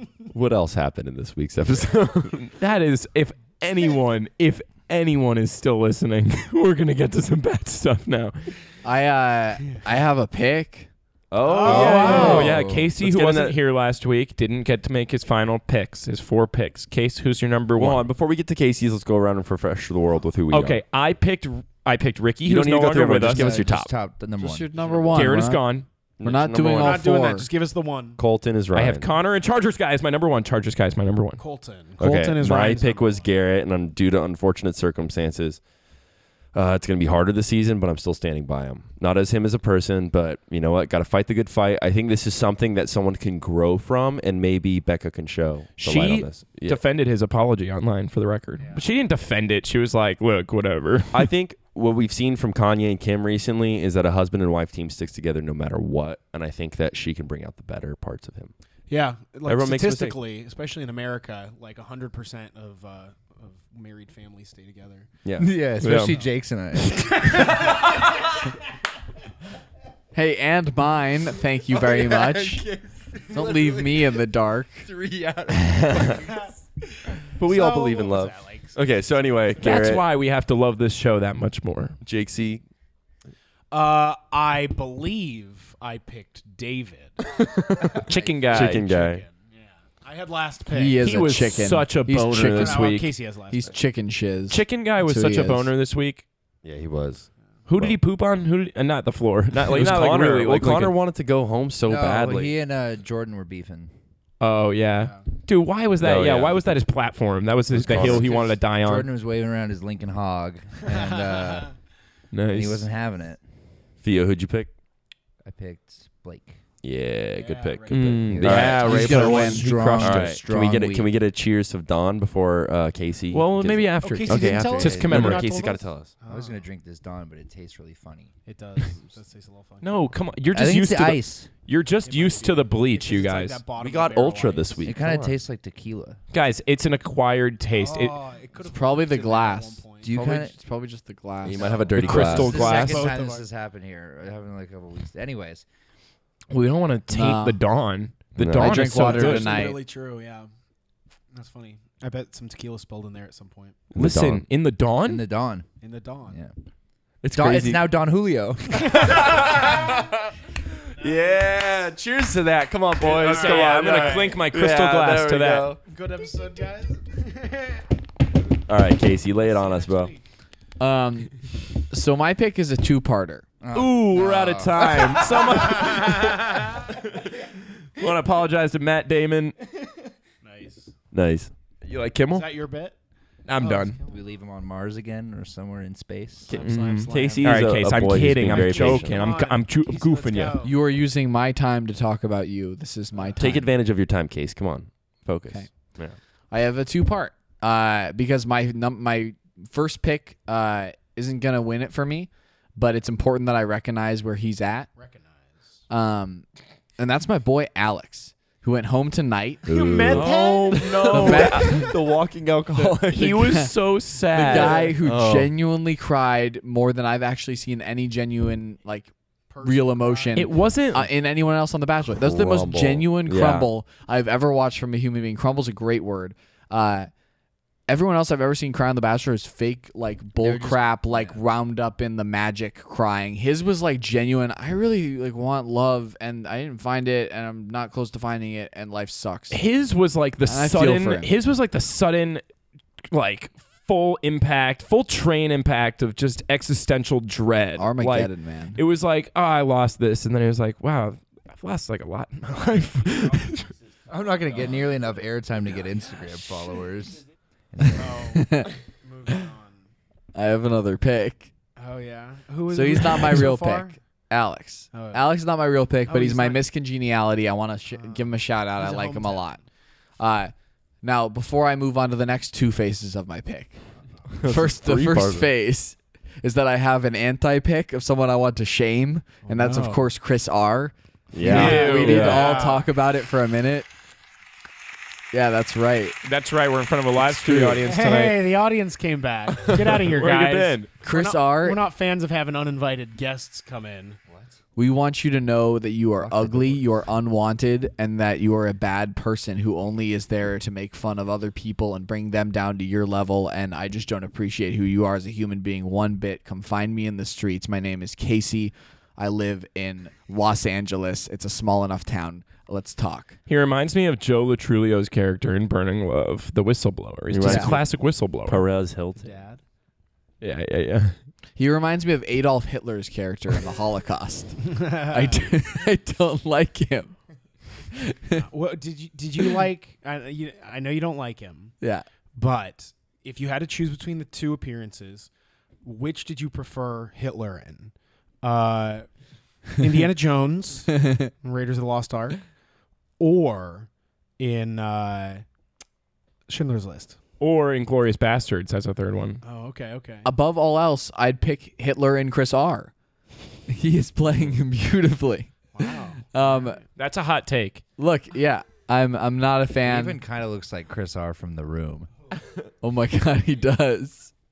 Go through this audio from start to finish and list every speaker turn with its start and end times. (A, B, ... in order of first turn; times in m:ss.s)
0:00.3-0:02.5 A
0:02.5-0:08.5 B
0:08.8-0:10.9 C
0:11.3-0:13.6 A
0:11.4-0:12.4 D
0:11.6-0:18.1 B
0:11.9-0:12.9 E
0:17.8-0:20.8 A
0:20.5-0:23.9 B
0:22.4-0:23.7 A
0:23.3-0:25.5 E
0:24.4-0:25.6 C
0:25.1-0:25.9 B
0:26.2-0:27.0 A
0:26.2-0:27.5 C
0:26.8-0:28.2 D
0:28.2-0:29.1 A
0:28.7-0:31.4 B
0:31.4-0:33.2 D
0:32.0-0:35.6 A
0:36.5-0:46.8 A
0:45.8-0:51.3 B
0:51.1-0:58.5 A
0:58.9-1:05.1 D
0:59.4-1:00.2 A
1:05.2-1:05.5 A
1:05.4-1:07.4 E
1:05.8-1:06.2 B
1:07.1-1:07.8 D
1:10.1-1:12.6 C
1:11.7-1:14.2 E
1:13.3-1:14.8 C
1:14.8-1:16.4 E
1:15.5-1:16.3 A
1:17.4-1:20.0 A
1:17.4-1:18.8 D
1:19.5-1:19.8 D
1:19.6-1:22.0 B
1:22.0-1:22.6 A
1:23.7-1:31.3 D
1:27.4-1:29.2 A
1:28.1-1:28.8 B
1:30.7-1:35.7 C
1:31.0-1:33.1 B
1:32.5-1:33.8 D
1:34.5-1:36.2 B
1:36.6-1:38.0 A
1:37.7-1:40.9 B
1:39.6-1:42.5 A
1:41.8-1:43.9 E
1:44.4-1:49.1 B
1:46.0-1:46.6 A
1:47.7-1:48.3 A
1:47.9-1:51.7 E
1:48.0-1:48.6 D
1:50.9-1:51.7 D
1:52.3-1:52.9 B
1:52.5-1:53.4 E
1:54.0-1:54.7 A
1:55.4-1:56.6 E
1:56.8-2:06.1 A
1:57.3-1:58.3 D
1:57.9-2:00.4 B
1:58.2-2:01.1 E
1:58.7-1:59.7 C
2:03.3-2:05.5 B
2:04.0-2:06.6 D
2:04.7-2:05.1 E
2:06.3-2:08.3 E
2:08.4-2:10.1 D
2:09.8-2:13.6 B
2:10.5-2:11.5 E
2:12.0-2:14.9 D
2:13.8-2:15.4 A
2:14.8-2:16.2 E
2:16.3-2:18.2 B
2:17.7-2:20.2 D
2:18.6-2:22.0 C
2:20.0-2:20.5 E
2:21.4-2:22.8 A
2:22.0-2:23.1 B
2:22.0-2:25.6 E
2:22.0-2:23.4 D
2:26.5-2:29.7 B
2:27.1-2:27.6 C
2:28.4-2:28.9 A
2:28.5-2:29.8 C
2:28.8-2:30.5 D
2:31.3-2:33.8 D
2:33.9-2:34.4 A
2:33.9-2:35.2 B
2:35.0-2:35.7 E
2:35.8-2:36.4 D
2:37.2-2:37.8 A
2:37.3-2:37.8 B
2:37.3-2:39.0 E
2:38.9-2:39.6 D
2:38.9-2:40.1 A
2:41.0-2:45.8 A
2:41.0-2:41.3 D
2:43.0-2:44.4 D
2:43.2-2:45.7 B
2:45.9-2:47.8 D
2:48.7-2:50.1 A
2:49.4-2:50.2 D
2:50.8-2:53.4 C
2:53.6-2:55.2 E
2:53.7-2:57.2 B
2:55.7-2:56.6 D
2:58.0-2:59.6 B
3:00.4-3:00.9 D
3:01.1-3:01.5 A
3:01.8-3:02.5 B
3:02.3-3:03.0 D
3:03.5-3:04.0 B
3:03.6-3:04.2 D
3:04.1-3:06.5 E
3:06.5-3:07.6 D
3:06.5-3:10.6 B
3:07.1-3:09.3 A
3:08.5-3:10.8 D
3:10.6-3:13.7 C
3:13.4-3:16.2 A
3:16.5-3:24.9 C
3:24.9-3:25.8 D
3:25.9-3:26.5 C
3:27.0-3:29.7 C
3:29.7-3:31.3 D
3:29.7-3:33.4 A
3:30.1-3:31.8 B
3:31.1-3:31.9 C
3:32.7-3:33.8 C
3:33.1-3:34.9 B
3:34.3-3:47.1 C
3:34.5-3:35.5 A
3:34.5-3:34.9 D
3:39.5-3:40.5 D
3:40.4-3:41.1 B
3:42.1-3:43.7 A
3:47.9-3:59.6 C
3:50.4-3:51.4 E
3:59.5-4:02.4 B
4:00.4-4:01.3 C
4:03.1-4:13.7 B
4:07.8-4:08.8 C
4:14.1-4:18.4 E
4:18.0-4:19.8 D
4:18.3-4:18.7 C
4:20.3-4:21.5 C
4:21.8-4:24.0 D
4:22.7-4:29.6 C
4:24.9-4:25.2 D
4:26.1-4:26.6 D
4:27.9-4:29.5 D
4:30.2-4:33.8 C
4:34.4-4:35.5 A
4:34.4-4:43.9 C
4:39.4-4:40.0 D
4:41.3-4:42.4 A
4:41.4-4:42.5 B
4:41.4-4:42.9 D
4:45.3-4:46.2 C
4:46.2-4:48.4 B
4:47.2-4:47.8 C
4:47.8-4:54.2 D
4:49.6-4:50.9 B
4:51.0-4:51.8 C
4:54.3-4:54.6 E
4:54.8-5:13.4 C
4:56.2-4:57.0 E
5:13.5-5:18.6 B
5:17.3-5:17.9 A
5:17.4-5:17.7 C
5:18.4-5:19.4 A
5:19.2-5:19.6 D
5:20.4-5:21.2 B
5:21.6-5:27.1 C
5:24.6-5:25.5 D
5:28.0-5:28.4 C
5:28.4-5:31.7 D
5:31.8-5:32.0 C
5:32.3-5:35.3 D
5:35.8-5:39.1 D
5:39.8-5:42.4 D
5:43.2-5:45.4 D
5:46.5-5:47.2 D
5:47.4-5:49.4 B
5:49.4-5:50.3 D
5:50.2-5:52.9 C
5:53.7-5:56.8 C
5:55.7-5:56.8 D
5:57.0-5:57.8 B
5:58.0-6:00.2 C
5:59.8-6:02.1 E
6:02.8-6:04.3 C